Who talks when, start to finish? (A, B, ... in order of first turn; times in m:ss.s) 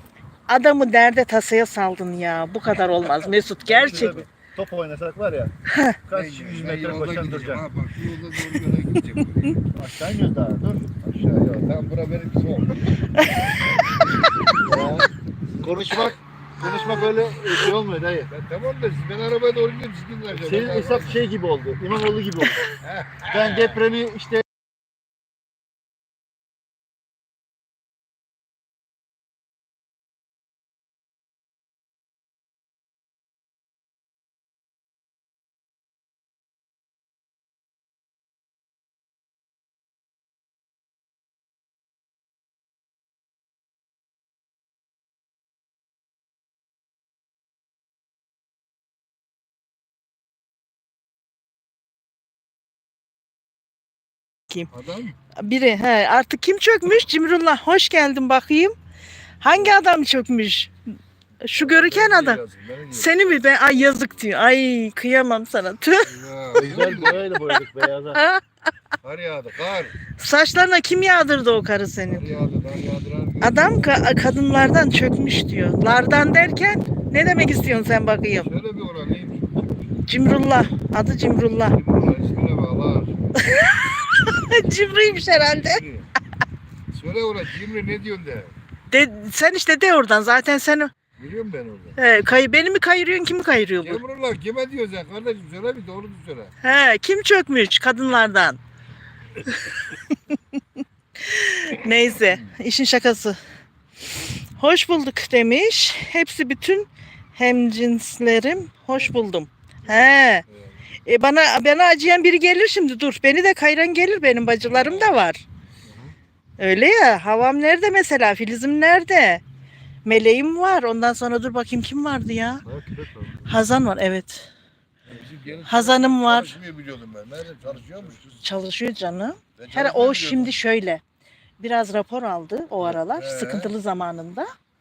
0:00.5-0:04.3 A
0:03.1-0:05.5 B
0:05.7-0:06.0 A
0:06.1-0:07.6 B
0:06.1-0:09.6 C
0:09.7-0:10.9 B
0:11.0-0:15.1 C
0:13.2-0:13.5 A
0:14.6-0:18.3 B
0:15.6-0:16.0 C
0:18.3-0:21.2 C
0:20.3-0:22.7 B
0:22.8-0:23.8 C
0:23.2-0:24.4 B
0:54.7-0:55.2 C
0:55.4-0:58.8 A
0:59.4-1:00.7 A
1:01.4-1:06.1 A
1:01.5-1:04.2 C
1:06.0-1:07.3 C
1:06.5-1:08.2 B
1:08.1-1:08.4 A
1:09.0-1:10.0 C
1:10.2-1:12.3 A
1:12.1-1:14.0 C
1:13.4-1:18.5 A
1:18.4-1:20.0 C
1:20.1-1:21.8 A
1:21.6-1:23.5 C
1:23.4-1:25.8 A
1:24.5-1:26.1 C
1:26.9-1:28.5 C
1:28.9-1:30.9 A
1:31.2-1:32.0 C
1:32.0-1:34.0 A
1:33.8-1:36.5 C
1:36.6-1:38.6 A
1:41.2-1:43.4 A
1:44.6-1:50.4 A
1:49.9-1:50.7 C
1:51.1-1:55.4 A
1:54.7-1:55.2 C
1:55.8-1:56.1 B
1:56.6-1:59.4 A
2:00.0-2:02.6 A
2:02.6-2:03.5 B
2:03.5-2:04.5 A
2:05.1-2:08.4 C
2:05.2-2:05.6 B
2:05.7-2:06.6 A
2:08.4-2:11.0 A
2:09.6-2:10.6 C
2:11.6-2:14.5 A
2:12.8-2:13.7 C